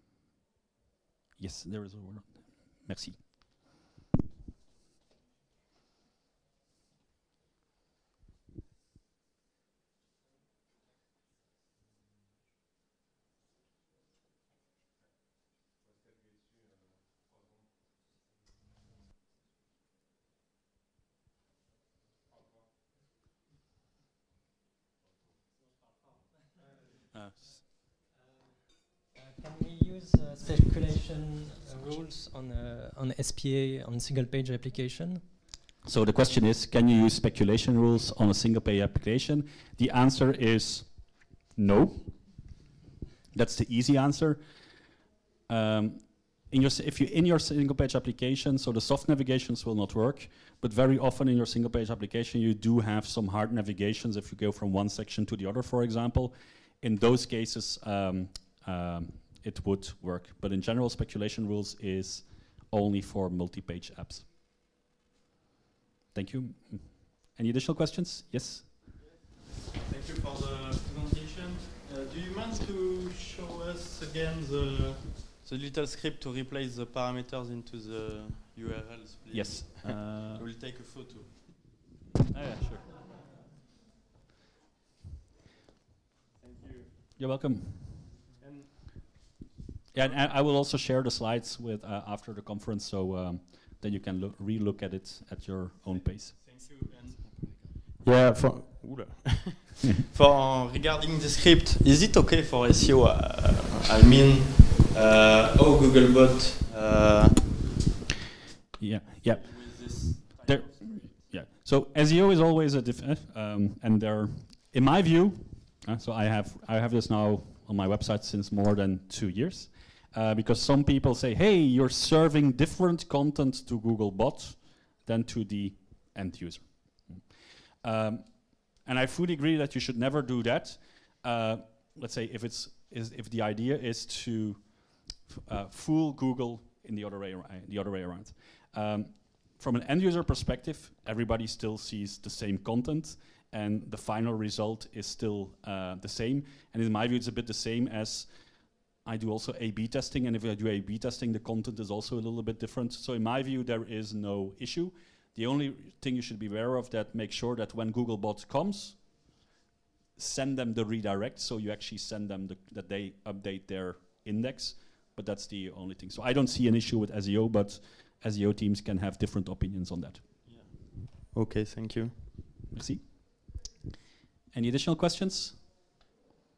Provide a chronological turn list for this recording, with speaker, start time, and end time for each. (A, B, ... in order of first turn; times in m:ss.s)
0:01.4-0:03.2 A
0:29.1-0:35.2 B
0:35.8-0:42.1 A
0:43.3-0:44.4 A
0:45.5-1:04.3 A
1:06.1-1:08.7 A
1:09.7-1:21.7 C
1:19.3-1:20.4 A
1:22.3-1:22.9 A
1:26.4-1:26.9 C
1:27.2-1:28.0 A
1:28.4-1:29.0 C
1:29.9-1:36.3 A
1:36.2-1:47.8 C
1:48.8-2:07.2 A
1:49.2-1:51.1 C
2:07.8-2:28.3 A
2:29.0-2:39.2 A
2:40.2-2:50.4 A
2:50.4-2:52.5 C
2:52.7-2:53.4 A
2:54.5-2:55.6 A